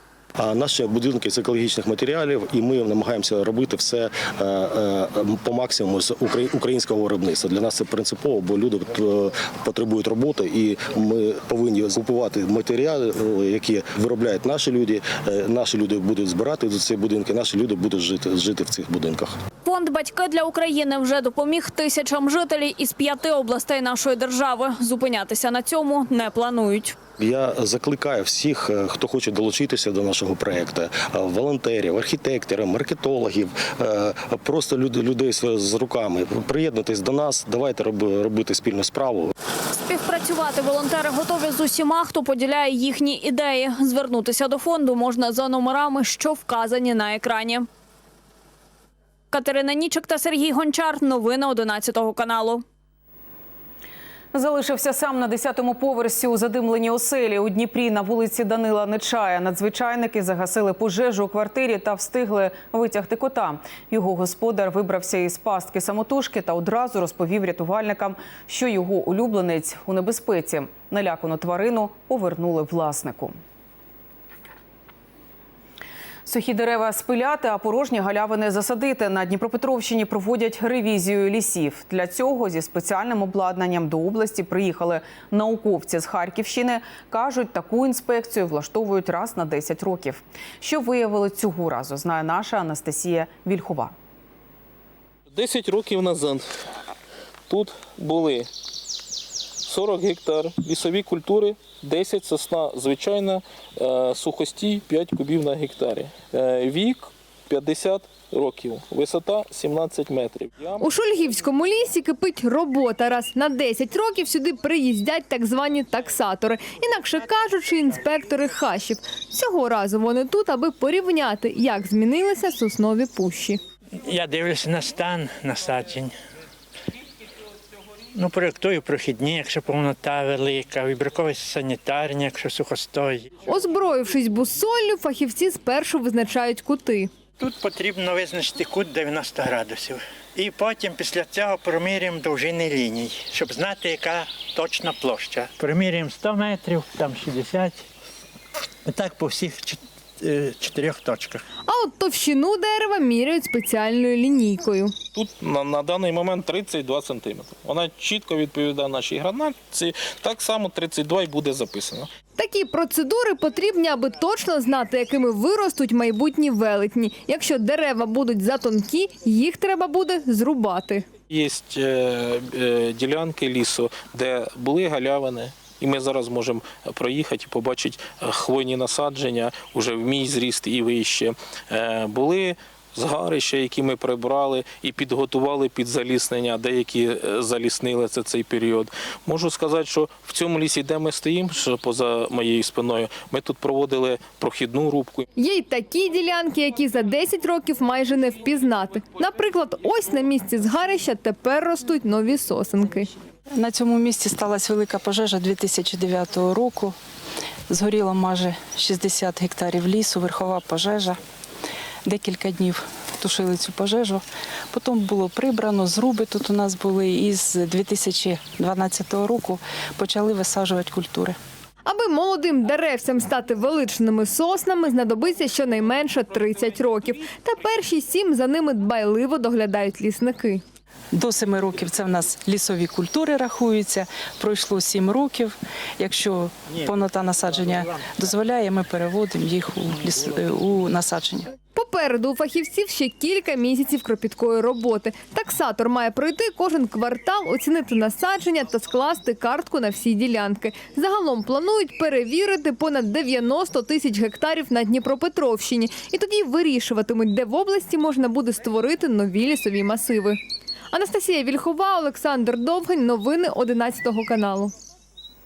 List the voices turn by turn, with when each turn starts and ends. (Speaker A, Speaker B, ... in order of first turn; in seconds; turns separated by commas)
Speaker A: 0.4-19.4, Speaker B: 19.6-27.0, Speaker A: 27.2-39.3, Speaker B: 39.7-47.7, Speaker B: 49.3-52.6, Speaker C: 54.3-73.4, Speaker C: 76.3-93.9, Speaker D: 95.3-96.5, Speaker D: 97.5-98.5, Speaker D: 99.7-110.8, Speaker E: 110.8-123.6, Speaker F: 124.0-126.2, Speaker F: 128.1-133.3, Speaker E: 133.4-137.1, Speaker F: 137.4-147.8, Speaker F: 148.9-151.4, Speaker E: 151.7-154.9, Speaker D: 155.1-162.1, Speaker E: 162.4-171.1, Speaker D: 171.3-195.3, Speaker E: 195.4-203.1, Speaker G: 203.5-207.0, Speaker G: 207.7-211.2, Speaker G: 212.1-221.4, Speaker E: 221.9-230.6, Speaker G: 231.1-241.5, Speaker E: 241.8-260.4, Speaker E: 260.9-264.7